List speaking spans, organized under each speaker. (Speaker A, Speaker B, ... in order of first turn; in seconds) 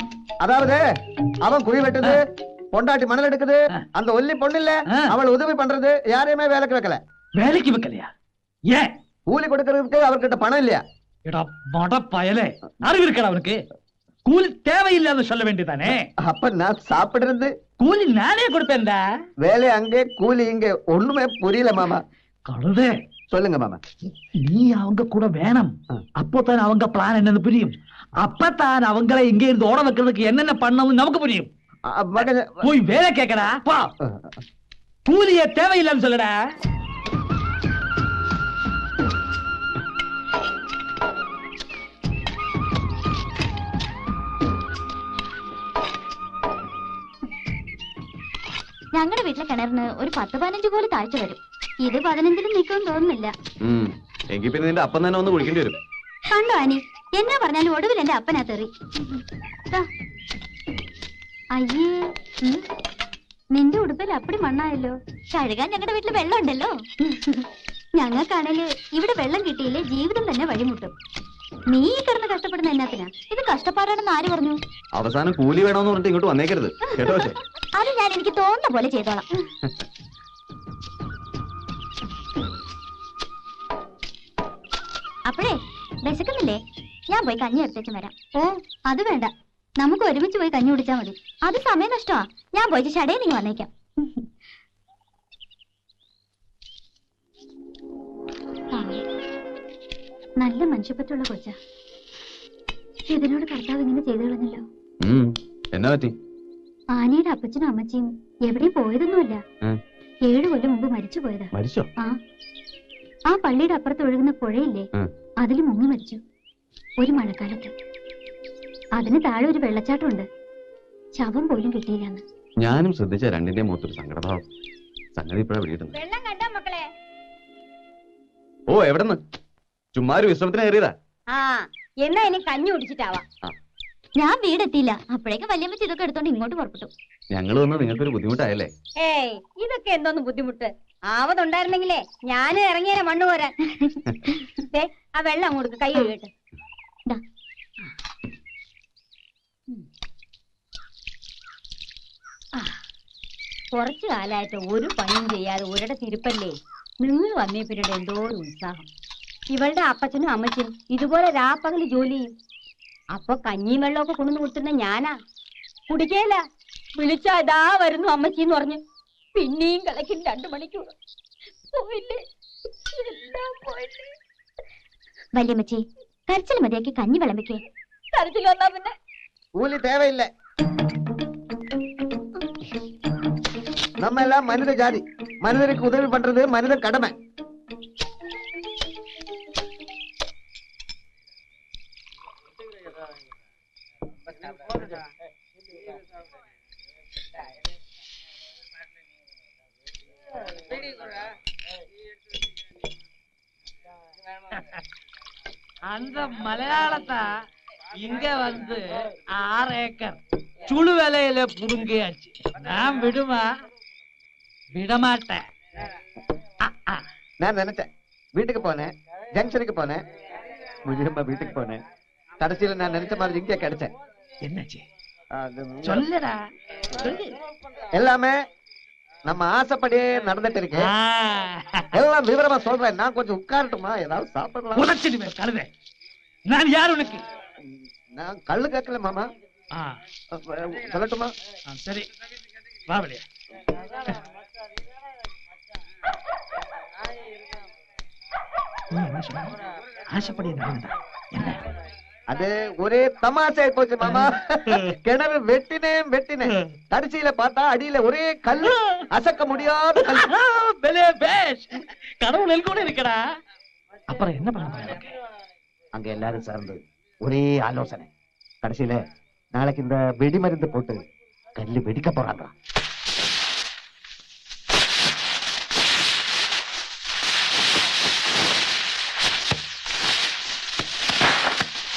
Speaker A: 0.4-0.8, 1.4-7.0, 9.3-10.8, 16.2-17.5, 19.4-22.0, 23.3-23.8, 31.9-32.7, 34.0-34.4, 179.6-180.3, 184.0-187.2, 217.4-220.0, 220.9-221.8, 222.4-223.9, 225.3-226.1, 227.9-228.4, 229.3-230.9, 231.9-234.9, 237.6-239.3, 240.3-241.3, 252.3-260.3, 265.9-268.1, 268.6-271.0, 271.6-272.5
Speaker B: 7.4-8.1, 11.3-13.6, 14.3-16.1, 17.8-19.0, 22.5-22.9, 24.4-31.5, 32.2-33.9, 35.1-36.3, 205.9-207.3, 208.0-213.5, 214.8-215.4, 216.6-217.0, 224.5-224.8, 225.8-226.4, 227.0-227.3, 230.8-231.9, 234.8-235.7, 236.5-237.2, 241.7-242.1, 242.9-243.2, 248.9-249.5, 250.1-251.6, 254.1-254.9, 258.6-259.0, 260.0-263.2, 264.1-265.1
Speaker C: 48.9-53.3, 56.3-59.2, 61.5-62.6, 63.5-70.9, 71.7-74.6, 77.7-79.3, 85.3-94.3, 98.7-99.0, 100.4-101.6, 103.1-104.6, 106.9-109.4, 110.2-112.2, 113.3-114.9, 115.4-116.2, 117.0-117.7, 119.0-120.3, 121.2-122.2, 134.2-136.9, 143.7-144.5, 175.3-177.6
Speaker D: 53.6-55.8, 75.0-77.4, 105.0-106.1, 111.5-111.9, 122.6-124.5, 125.2-125.9, 128.7-129.2, 129.9-130.9, 137.3-138.7
Speaker E: 125.9-126.9, 131.3-133.2, 139.0-143.6, 144.7-146.3, 153.7-158.9, 159.5-162.3, 163.1-165.1, 165.9-166.4, 167.0-168.8, 169.3-170.9, 171.7-172.2, 172.9-174.1, 178.1-178.9